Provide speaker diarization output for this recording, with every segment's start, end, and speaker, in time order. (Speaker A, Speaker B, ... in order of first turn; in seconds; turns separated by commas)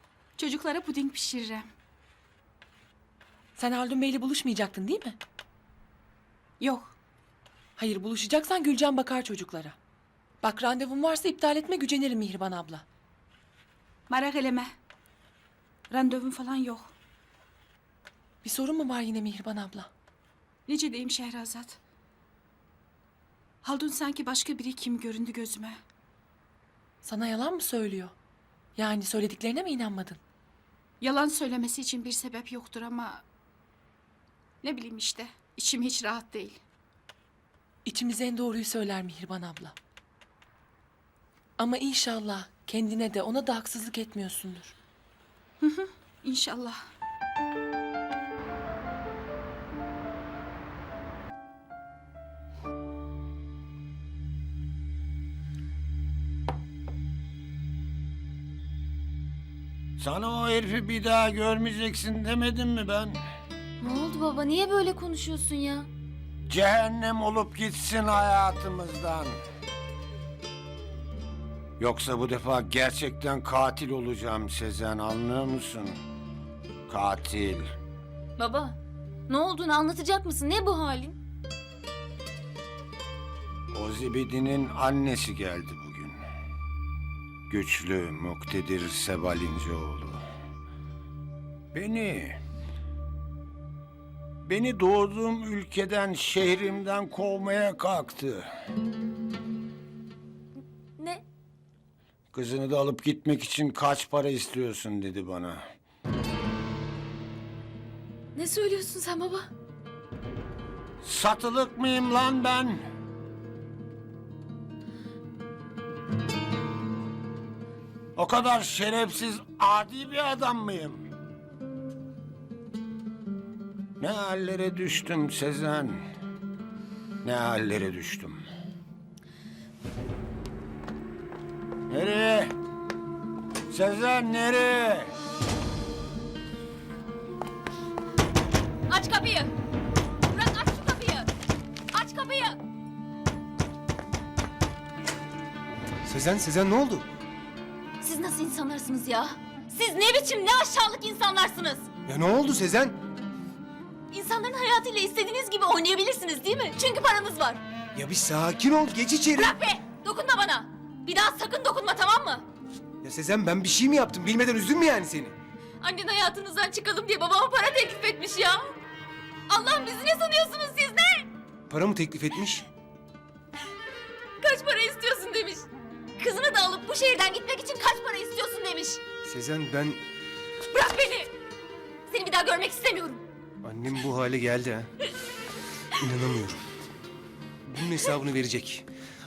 Speaker A: 0.4-1.7, Speaker B: 3.5-5.2, Speaker A: 6.6-6.9, Speaker B: 7.8-9.8, Speaker B: 10.4-12.8, Speaker A: 14.1-14.7, Speaker A: 15.9-16.9, Speaker B: 18.4-19.9, Speaker A: 20.7-21.8, Speaker A: 23.6-25.8, Speaker B: 27.0-28.1, Speaker B: 28.8-30.2, Speaker A: 31.0-33.2, Speaker A: 34.6-36.6, Speaker B: 37.8-39.7, Speaker B: 41.6-44.7, Speaker A: 45.6-46.8, Speaker C: 60.0-63.2, Speaker D: 63.8-65.9, Speaker C: 66.5-69.4, Speaker C: 71.8-76.0, Speaker C: 76.9-77.6, Speaker D: 78.4-78.8, Speaker D: 79.3-81.2, Speaker C: 83.7-86.2, Speaker C: 87.5-90.2, Speaker C: 91.7-92.4, Speaker C: 94.4-98.5, Speaker C: 102.3-105.6, Speaker D: 108.3-109.5, Speaker C: 111.0-112.8, Speaker C: 118.2-121.0, Speaker C: 124.0-126.0, Speaker C: 127.2-128.4, Speaker C: 131.9-132.5, Speaker C: 133.7-135.1, Speaker D: 138.9-139.5, Speaker D: 140.3-141.3, Speaker D: 141.9-142.6, Speaker E: 146.1-147.1, Speaker D: 148.0-151.9, Speaker E: 152.1-153.0, Speaker D: 154.1-157.6, Speaker E: 157.9-159.6, Speaker D: 159.3-162.4, Speaker E: 163.0-165.3, Speaker D: 165.8-168.8, Speaker D: 169.5-171.3, Speaker E: 171.7-172.6, Speaker D: 174.4-175.7, Speaker D: 176.2-179.0, Speaker E: 179.2-180.0, Speaker D: 180.7-181.3, Speaker D: 182.1-183.2, Speaker E: 183.6-184.9, Speaker E: 186.0-186.6, Speaker E: 187.7-188.8